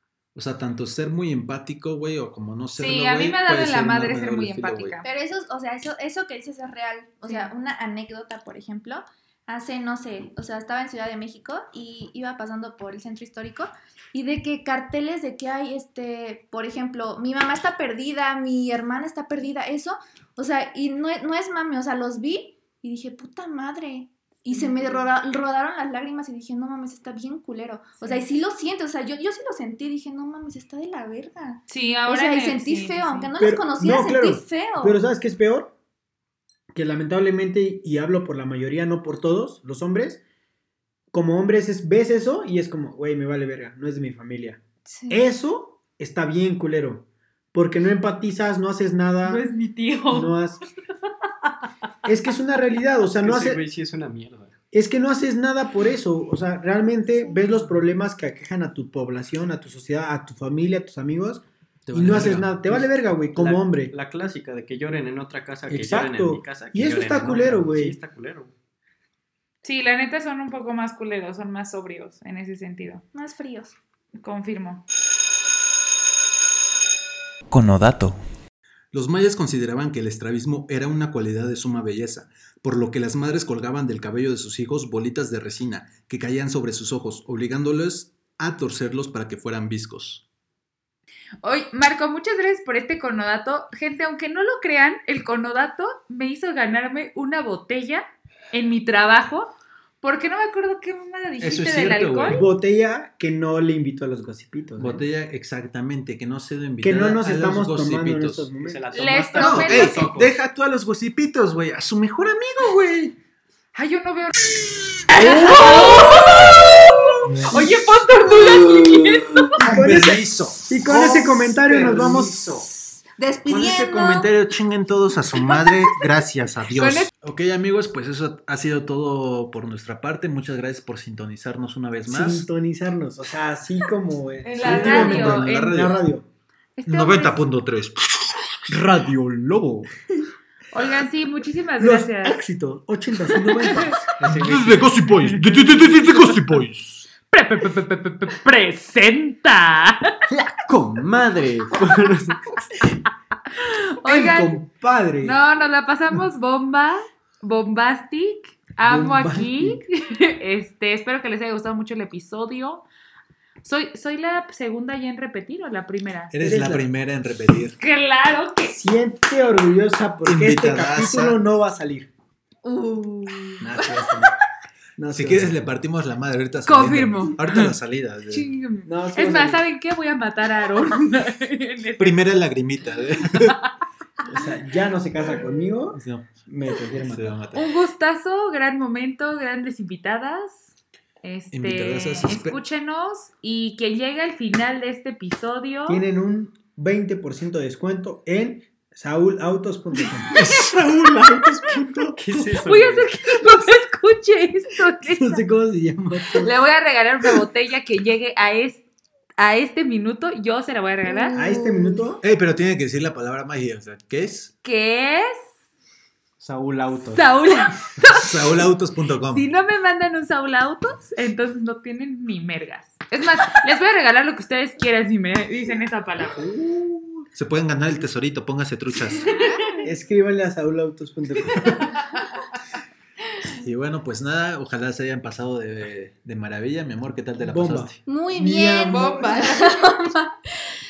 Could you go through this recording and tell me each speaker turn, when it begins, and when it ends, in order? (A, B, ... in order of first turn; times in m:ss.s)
0:00.4-0:05.0 A
0:02.8-0:05.1 B
0:05.0-0:35.0 C
0:07.2-0:07.5 B
0:24.5-0:25.1 B
0:31.7-0:33.3 B
0:33.4-0:35.7 D
0:36.7-0:40.2 D
0:41.1-0:49.4 D
0:44.9-0:45.2 C
0:49.2-0:50.3 B
0:50.1-0:50.6 D
0:52.0-0:53.6 D
0:53.2-0:54.6 E
0:54.7-1:03.9 D
1:01.9-1:02.6 A
1:02.7-1:08.5 E
1:05.7-1:08.0 D
1:09.6-1:13.0 B
1:13.1-1:13.8 C
1:14.2-1:14.8 B
1:17.5-1:18.2 A
1:18.9-1:30.2 A
1:31.4-1:42.4 B
1:41.4-1:42.4 A
1:42.3-1:45.0 D
1:44.8-1:48.5 A
1:46.8-1:48.8 D
1:48.6-1:50.3 E
1:48.9-1:50.3 B
1:49.4-1:53.1 A
1:53.7-1:54.4 B
1:55.1-1:59.6 B
1:55.2-1:55.9 D
1:59.6-2:02.5 D
1:59.6-2:02.7 A
2:03.2-2:04.3 C
2:03.5-2:12.5 A
2:06.8-2:07.1 B
2:12.1-2:16.2 D
2:14.4-2:15.9 B
2:14.6-2:16.0 A
2:16.8-2:17.4 B
2:16.9-2:18.5 A
2:18.7-2:19.9 E
2:20.7-2:22.4 B
2:21.8-2:24.9 D
2:23.6-2:24.0 B
2:24.2-2:24.8 E
2:24.3-2:27.1 A
2:25.2-2:26.4 B
2:27.3-2:30.2 B
2:30.6-2:32.6 E
2:33.6-2:34.6 B
2:34.0-2:35.4 D
2:35.2-2:42.8 B
2:38.8-2:39.8 D
2:43.6-2:46.3 B
2:46.3-2:47.8 A
2:46.4-2:46.9 D
2:47.8-2:48.8 B
2:48.7-2:52.1 D
2:50.2-2:51.4 A
2:52.6-2:53.6 B
2:53.0-2:53.6 C
2:53.6-2:54.3 D
2:55.0-2:55.6 D
2:55.1-2:58.5 A
2:56.7-2:57.7 B
2:58.3-3:02.2 B
2:58.9-2:59.6 D
3:02.0-3:03.6 A
3:03.4-3:03.7 B
3:04.3-3:07.3 D
3:05.9-3:06.5 A
3:07.0-3:07.7 A
3:07.5-3:10.7 B
3:11.2-3:16.0 B
3:11.5-3:12.6 A
3:15.9-3:22.0 D
3:20.3-3:22.2 A
3:22.2-3:23.1 E
3:22.6-3:25.4 B
3:25.0-3:26.6 D
3:26.4-3:28.8 B
3:29.4-3:31.4 B
3:31.0-3:32.1 C
3:31.4-3:32.2 D
3:32.2-3:34.5 A
3:34.6-3:35.4 B
3:36.4-3:37.3 E
3:37.1-3:38.6 B
3:38.0-3:39.5 A
3:39.3-3:46.4 B
3:46.3-3:47.3 D
3:47.3-3:49.3 A
3:49.1-3:49.8 C
3:49.2-3:49.9 B
3:49.8-3:51.9 D
3:51.5-3:52.3 B
3:53.6-3:58.0 A
3:57.4-3:59.5 D
3:58.1-4:00.3 C
3:58.9-4:00.0 B